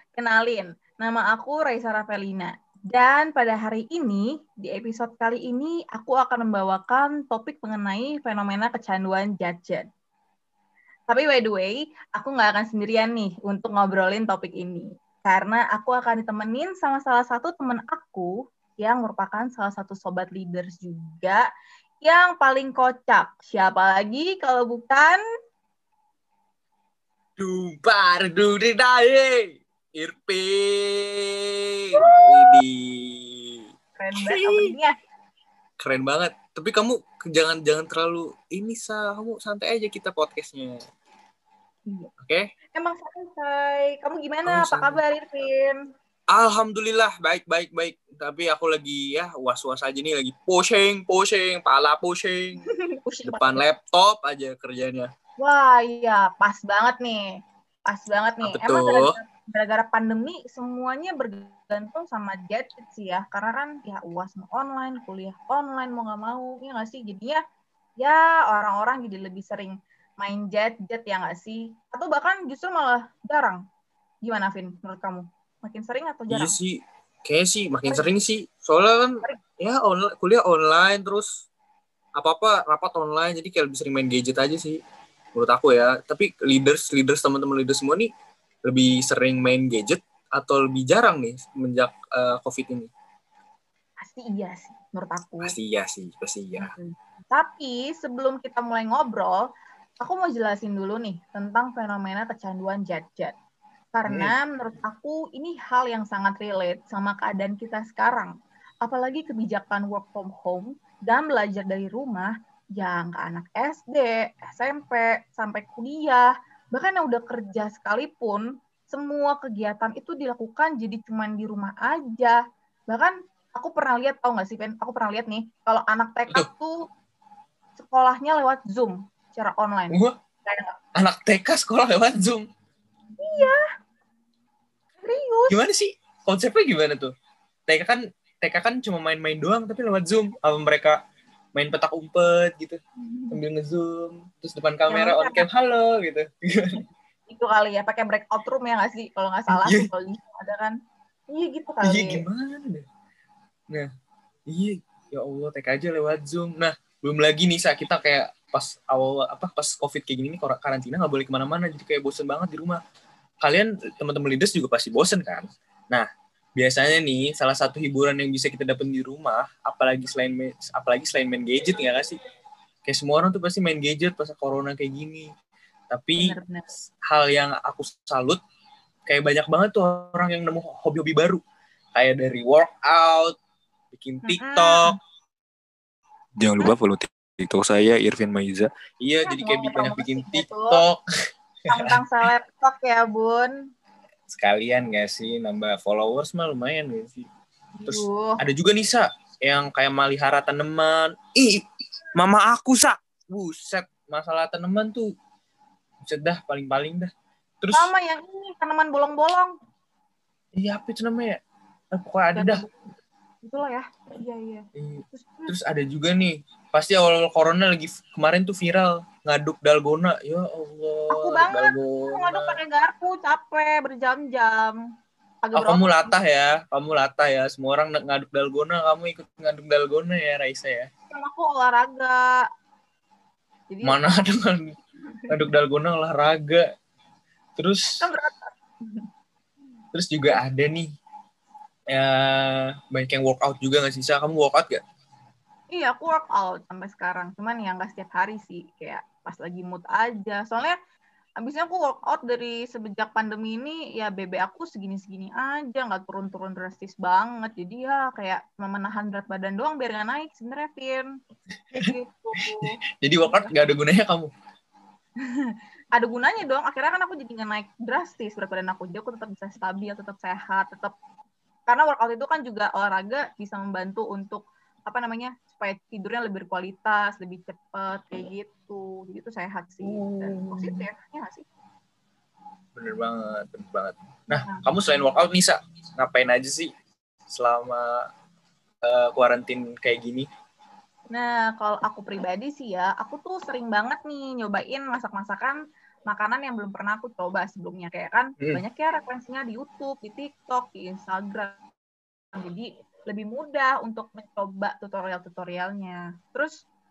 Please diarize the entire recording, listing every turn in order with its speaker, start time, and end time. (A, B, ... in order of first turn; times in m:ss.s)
0:00.2-0:09.8 A
0:11.1-0:21.4 A
0:22.0-0:25.2 A
0:27.4-0:33.6 B
0:32.0-0:32.5 A
0:34.0-0:34.9 A
0:34.2-0:34.8 B
0:35.8-0:40.8 B
0:42.2-0:42.5 B
0:42.7-0:45.8 A
0:44.4-0:45.0 B
0:46.3-0:52.6 B
0:52.6-0:53.6 A
0:53.2-0:55.1 B
0:55.4-0:57.3 A
0:57.9-1:07.4 A
0:58.4-0:59.2 B
1:08.0-1:13.6 A
1:14.2-1:16.5 A
1:16.3-1:21.5 B
1:22.2-1:24.8 B
1:25.3-1:28.1 B
1:28.6-1:32.9 B
1:34.0-1:35.5 A
1:35.4-1:36.7 B
1:36.6-1:39.5 A
1:40.0-1:43.3 A
1:43.9-2:06.8 A
1:44.1-1:44.3 B
2:07.8-2:10.8 A
2:10.9-2:12.4 B
2:13.2-2:13.6 A
2:15.0-2:15.6 A
2:15.5-2:17.1 B
2:17.7-2:21.0 B
2:21.5-2:22.8 B
2:23.0-2:23.4 A
2:23.3-2:26.8 B
2:24.9-2:25.4 A
2:27.3-2:30.8 A
2:29.5-2:29.9 B
2:31.3-2:32.2 A
2:31.8-2:32.8 B
2:34.5-2:42.8 B
2:43.4-2:46.0 B
2:46.6-2:52.2 B
2:52.8-2:55.3 B
2:55.9-2:56.4 B
2:56.2-2:56.7 A
2:57.0-2:58.4 B
2:59.0-3:01.4 B
3:02.0-3:03.4 B
3:03.9-3:04.9 B
3:04.2-3:05.0 A
3:06.4-3:08.7 C
3:09.0-3:11.0 B
3:09.2-3:10.8 A
3:11.7-3:12.0 B
3:11.7-3:13.5 A
3:14.3-3:17.3 B
3:17.8-3:18.4 A
3:17.9-3:25.1 B
3:26.0-3:27.9 B
3:27.7-3:29.5 A
3:30.5-3:31.4 B
3:31.9-3:32.6 B
3:32.3-3:32.8 A
3:33.4-3:35.5 A
3:34.8-3:42.6 B
3:41.1-3:44.8 A
3:45.4-3:46.1 A
3:45.5-3:50.9 B
3:51.1-3:52.3 A
3:53.7-3:54.3 A
3:53.8-3:54.7 B
3:55.3-3:56.6 B
3:57.6-3:58.0 B
3:57.9-3:59.1 A
3:59.9-4:00.9 B
4:01.9-4:04.8 B
4:05.7-4:10.8 A
4:11.4-4:21.1 A
4:21.7-4:24.3 B
4:21.8-4:23.5 A
4:25.2-4:30.9 A
4:31.7-4:41.4 A
4:39.8-4:40.9 B
4:42.8-4:46.7 B
4:44.3-4:44.6 A
4:47.3-4:48.1 B
4:48.8-4:50.3 B
4:51.1-5:01.6 A
5:02.3-5:06.6 A